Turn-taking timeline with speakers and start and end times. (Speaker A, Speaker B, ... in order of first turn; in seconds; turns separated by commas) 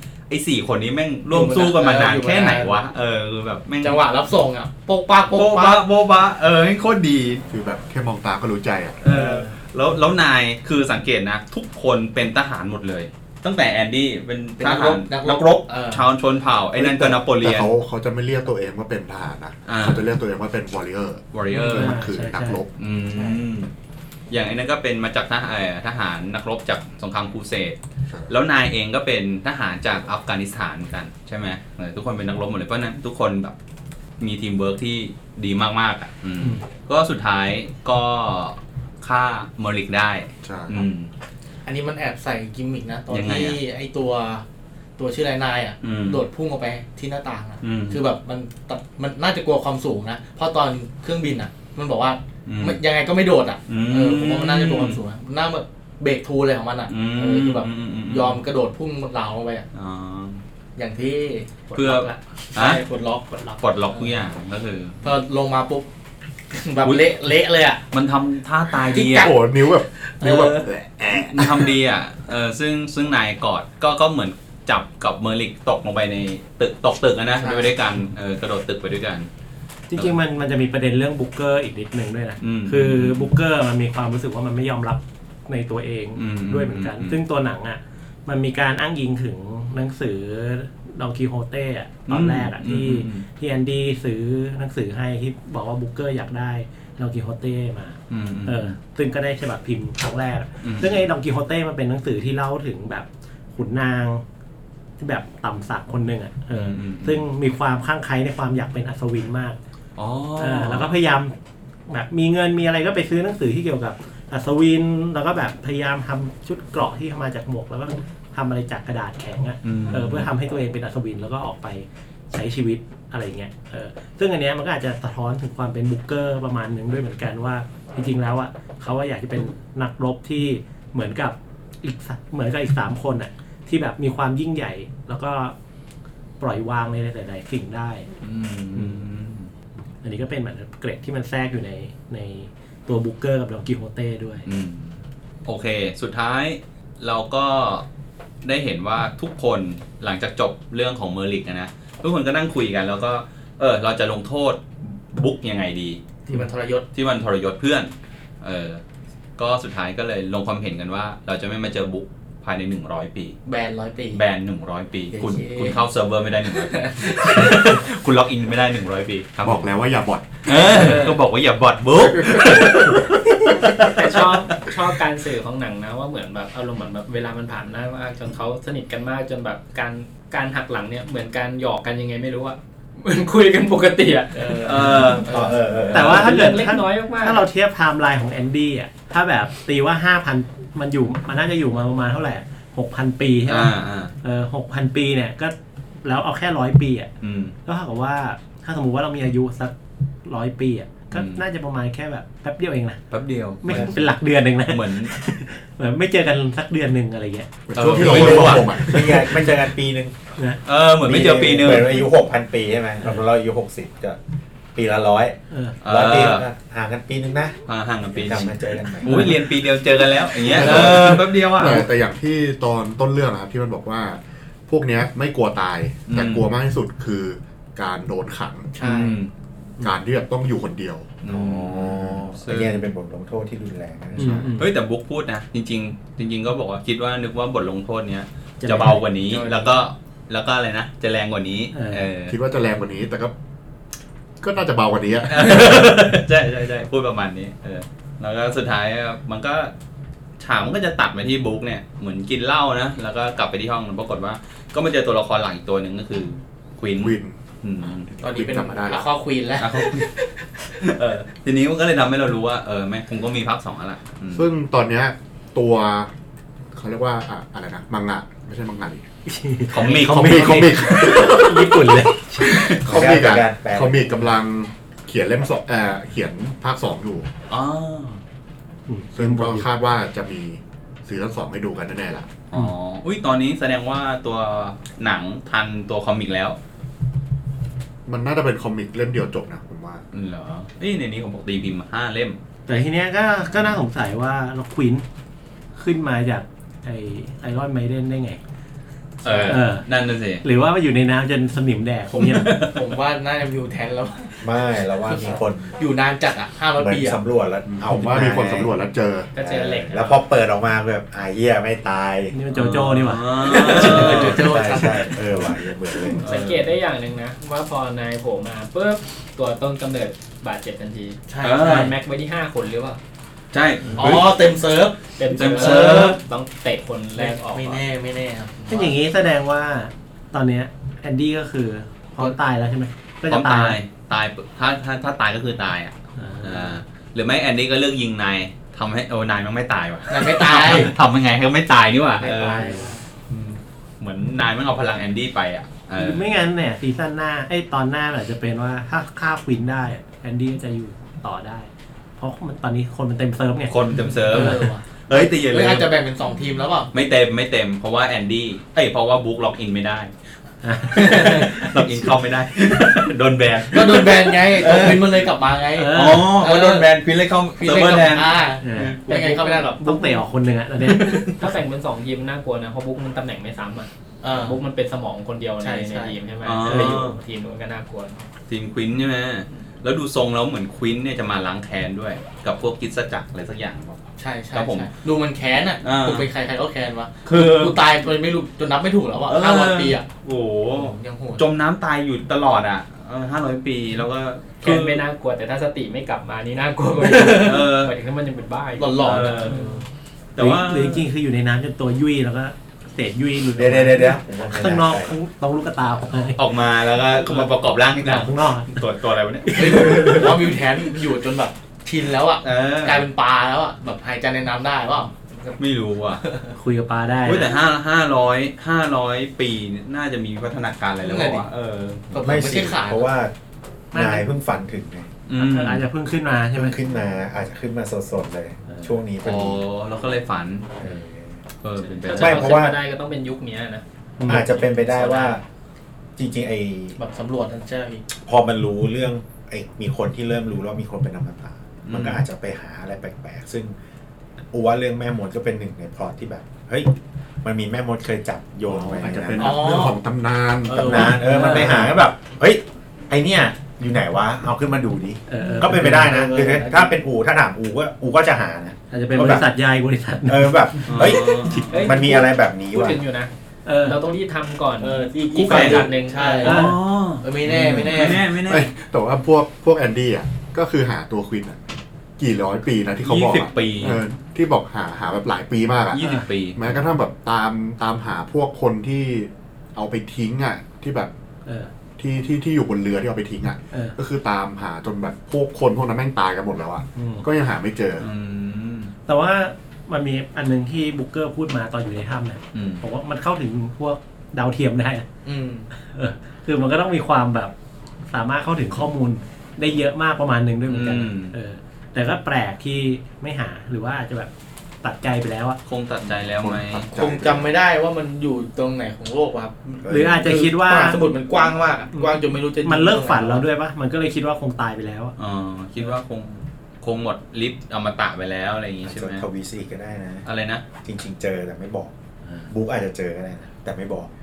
Speaker A: 0.3-4.0, Speaker B: 1.3-2.8, Speaker B: 3.8-5.8, Speaker A: 5.3-7.4, Speaker C: 7.5-9.0, Speaker A: 9.0-17.7, Speaker B: 9.1-9.5, Speaker B: 14.6-16.1, Speaker C: 16.8-22.7, Speaker A: 19.7-20.1, Speaker A: 21.3-22.0, Speaker D: 21.5-22.6, Speaker A: 22.8-23.7, Speaker B: 23.1-23.4, Speaker A: 24.3-27.8, Speaker A: 28.3-33.5, Speaker A: 34.2-41.1, Speaker C: 40.4-40.8, Speaker B: 41.6-44.4, Speaker A: 43.1-43.6, Speaker B: 45.0-59.7, Speaker A: 45.8-46.2, Speaker A: 47.6-48.0, Speaker A: 52.5-52.8, Speaker A: 53.7-55.0, Speaker A: 56.9-58.4, Speaker A: 59.7-60.4, Speaker B: 60.8-64.2, Speaker A: 61.7-62.8, Speaker A: 63.6-65.0, Speaker B: 65.0-65.9, Speaker B: 66.5-67.8, Speaker A: 66.8-67.1, Speaker A: 67.9-69.3, Speaker B: 68.9-69.5, Speaker C: 69.1-71.7, Speaker B: 70.1-70.7, Speaker A: 71.2-79.3, Speaker B: 77.4-77.7, Speaker D: 79.9-104.2, Speaker A: 82.4-83.3, Speaker A: 86.2-87.2, Speaker A: 92.1-93.2, Speaker A: 98.1-98.7, Speaker A: 100.6-101.0, Speaker D: 105.0-109.6, Speaker A: 106.5-107.2, Speaker A: 110.0-110.9, Speaker D: 110.4-111.3, Speaker D: 111.9-135.6, Speaker A: 119.6-120.3, Speaker D: 136.4-138.1, Speaker A: 138.2-139.5, Speaker D: 138.7-139.0, Speaker D: 140.0-144.5, Speaker A: 144.5-147.9, Speaker A: 148.4-156.0, Speaker B: 156.3-156.8, Speaker A: 156.9-158.8, Speaker A: 159.4-163.4, Speaker B: 163.5-164.2, Speaker A: 164.1-169.7, Speaker B: 165.1-165.8, Speaker B: 166.5-167.8, Speaker C: 169.4-171.1, Speaker A: 170.4-173.2, Speaker E: 170.7-171.2, Speaker C: 172.1-174.1, Speaker E: 173.9-185.3, Speaker B: 184.3-185.9, Speaker A: 184.6-185.3, Speaker F: 185.3-186.3, Speaker E: 185.9-187.4, Speaker D: 185.9-197.1, Speaker A: 193.5-194.1, Speaker A: 197.2-197.5, Speaker D: 197.7-199.7, Speaker D: 200.2-203.0, Speaker A: 201.1-201.4, Speaker A: 203.1-204.1, Speaker D: 203.6-207.5, Speaker A: 204.7-205.1, Speaker C: 207.7-209.3, Speaker A: 207.8-208.8, Speaker F: 208.0-210.2, Speaker D: 208.1-209.3, Speaker A: 210.7-212.1, Speaker F: 211.0-214.2, Speaker F: 214.8-217.6, Speaker D: 215.5-215.8, Speaker A: 215.8-216.4, Speaker A: 217.7-221.9, Speaker F: 218.1-219.3, Speaker D: 219.1-219.4, Speaker C: 220.5-228.7, Speaker F: 220.6-220.9, Speaker A: 226.1-226.5, Speaker B: 228.7-229.2, Speaker A: 228.8-229.3, Speaker C: 229.8-231.1, Speaker A: 231.2-232.9, Speaker F: 231.3-234.6, Speaker D: 234.2-234.7, Speaker A: 234.5-242.3, Speaker D: 238.6-239.0, Speaker B: 239.2-239.8, Speaker D: 241.7-242.1, Speaker C: 242.3-243.3, Speaker C: 244.4-246.1, Speaker A: 245.3-249.7, Speaker A: 250.4-258.1, Speaker C: 257.0-257.4, Speaker C: 258.1-259.1, Speaker B: 258.2-260.4, Speaker A: 259.6-260.1, Speaker A: 260.8-264.5, Speaker C: 264.3-266.1, Speaker C: 266.7-269.1, Speaker D: 269.3-272.5, Speaker A: 269.7-270.7, Speaker C: 269.8-277.3, Speaker A: 272.4-272.8, Speaker F: 272.8-274.2, Speaker A: 277.5-278.2, Speaker D: 278.9-279.7, Speaker C: 279.1-282.4, Speaker A: 282.5-286.6, Speaker C: 288.1-290.0, Speaker A: 290.1-292.4, Speaker D: 292.7-295.1, Speaker D: 295.8-298.4, Speaker A: 299.2-300.4, Speaker B: 299.2-299.6, Speaker D: 299.4-299.9, Speaker D: 300.4-302.6, Speaker A: 302.1-302.8, Speaker B: 302.5-307.2, Speaker F: 304.4-305.8, Speaker F: 306.8-308.8, Speaker C: 307.7-309.3, Speaker E: 309.3-310.2, Speaker F: 309.4-312.4, Speaker D: 312.3-314.6, Speaker A: 312.5-314.5, Speaker B: 313.3-315.2, Speaker F: 313.8-316.2, Speaker E: 316.1-323.0, Speaker A: 316.2-316.7, Speaker B: 321.3-321.8, Speaker A: 321.4-321.9, Speaker D: 321.6-321.9, Speaker A: 323.5-324.3, Speaker B: 324.0-326.2, Speaker E: 325.2-327.8, Speaker A: 325.4-326.2, Speaker B: 327.2-329.0, Speaker D: 328.7-333.8, Speaker A: 333.3-346.3, Speaker D: 336.2-336.8, Speaker B: 340.1-340.9, Speaker B: 342.2-343.0, Speaker D: 346.0-354.7, Speaker A: 353.7-355.9, Speaker B: 354.0-356.9, Speaker A: 356.9-360.1, Speaker D: 360.6-361.8, Speaker A: 360.9-365.3, Speaker B: 361.0-361.6, Speaker B: 363.7-366.9, Speaker D: 365.8-366.4, Speaker A: 365.9-369.6, Speaker B: 367.6-370.1, Speaker D: 368.6-371.5, Speaker A: 370.9-371.3, Speaker E: 371.3-378.3, Speaker B: 374.2-374.6, Speaker B: 375.6-376.9, Speaker A: 376.4-377.2, Speaker A: 378.5-384.0, Speaker B: 384.2-390.1, Speaker A: 384.5-384.9, Speaker A: 385.8-386.3, Speaker A: 387.2-387.8, Speaker A: 389.3-395.0, Speaker B: 390.8-391.4, Speaker E: 394.6-399.9, Speaker A: 397.1-397.9, Speaker B: 398.8-399.8, Speaker A: 399.0-399.6, Speaker A: 400.4-401.0, Speaker D: 400.4-406.5, Speaker F: 403.6-405.2, Speaker A: 406.4-410.5, Speaker D: 407.2-407.5, Speaker D: 408.0-408.8, Speaker D: 409.5-410.3, Speaker B: 409.5-415.6, Speaker A: 412.4-413.1, Speaker A: 415.6-416.2, Speaker B: 416.2-416.5, Speaker D: 416.6-417.6, Speaker A: 417.2-422.0, Speaker B: 421.0-421.4, Speaker B: 422.1-423.1, Speaker F: 422.1-423.3, Speaker F: 423.9-425.1, Speaker D: 423.9-424.3, Speaker A: 425.3-425.8, Speaker D: 425.4-426.8, Speaker F: 426.6-429.6, Speaker A: 429.2-430.9, Speaker F: 430.8-431.4, Speaker A: 431.6-432.7, Speaker E: 431.8-435.4, Speaker F: 432.1-432.8, Speaker D: 434.2-434.5, Speaker F: 434.3-435.4, Speaker F: 436.2-437.0, Speaker B: 437.0-438.1, Speaker F: 438.2-443.8, Speaker A: 441.9-442.2, Speaker F: 444.5-449.8, Speaker C: 448.7-451.1, Speaker B: 449.4-450.0, Speaker B: 450.7-451.7, Speaker F: 450.7-459.5, Speaker D: 451.0-452.0, Speaker D: 455.3-456.4, Speaker B: 456.0-456.8, Speaker E: 456.1-456.8, Speaker D: 458.9-461.9, Speaker F: 460.3-463.0, Speaker A: 460.9-462.0, Speaker E: 461.7-463.3, Speaker D: 463.7-464.0, Speaker E: 463.8-466.6, Speaker B: 464.8-468.3, Speaker A: 465.4-468.7, Speaker D: 466.4-466.8, Speaker C: 467.5-471.6, Speaker C: 472.2-481.1, Speaker A: 473.0-474.0, Speaker A: 475.9-476.8, Speaker D: 476.0-476.2, Speaker D: 481.5-481.7, Speaker C: 482.0-488.1, Speaker D: 487.0-487.3, Speaker A: 488.0-488.9, Speaker D: 489.1-495.1, Speaker A: 492.5-492.8, Speaker B: 495.2-495.7, Speaker D: 495.8-497.5, Speaker D: 498.1-504.3, Speaker A: 500.7-501.3, Speaker D: 504.8-505.6, Speaker A: 505.7-506.9, Speaker C: 506.2-507.5, Speaker B: 507.0-513.4, Speaker F: 509.8-510.4, Speaker D: 509.9-511.1, Speaker D: 511.9-515.1, Speaker A: 515.2-519.3, Speaker F: 518.8-520.3, Speaker A: 520.3-520.6, Speaker F: 520.8-521.9, Speaker F: 522.5-524.1